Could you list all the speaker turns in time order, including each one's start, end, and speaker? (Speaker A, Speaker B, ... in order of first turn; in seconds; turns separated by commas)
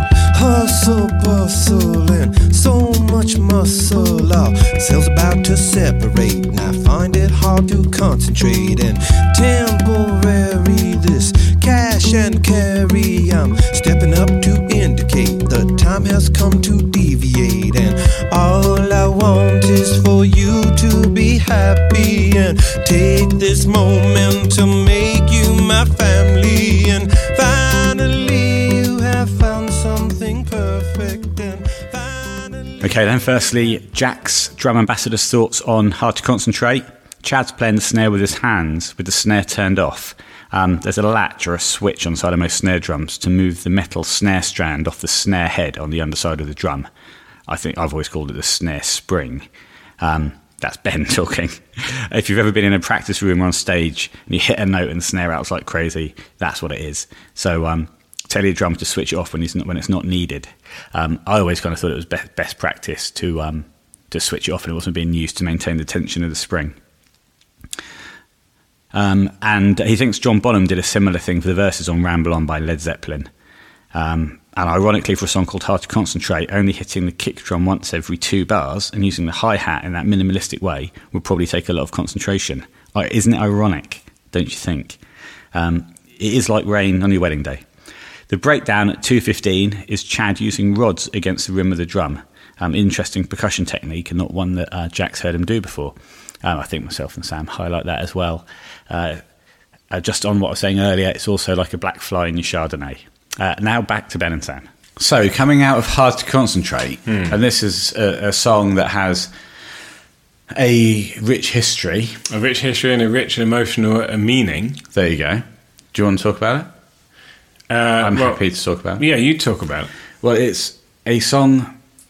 Speaker A: 0.3-32.8, Speaker B: 32.8-46.9, Speaker B: 47.5-49.5, Speaker B: 50.0-66.7, Speaker B: 68.9-73.3, Speaker B: 73.9-85.0, Speaker B: 85.5-87.6, Speaker B: 88.3-99.2, Speaker B: 99.9-109.3, Speaker C: 107.1-107.3, Speaker B: 110.5-112.2, Speaker C: 112.3-114.8, Speaker B: 114.9-116.7, Speaker C: 117.7-118.4, Speaker B: 118.0-119.0, Speaker C: 119.0-119.9, Speaker B: 120.2-121.7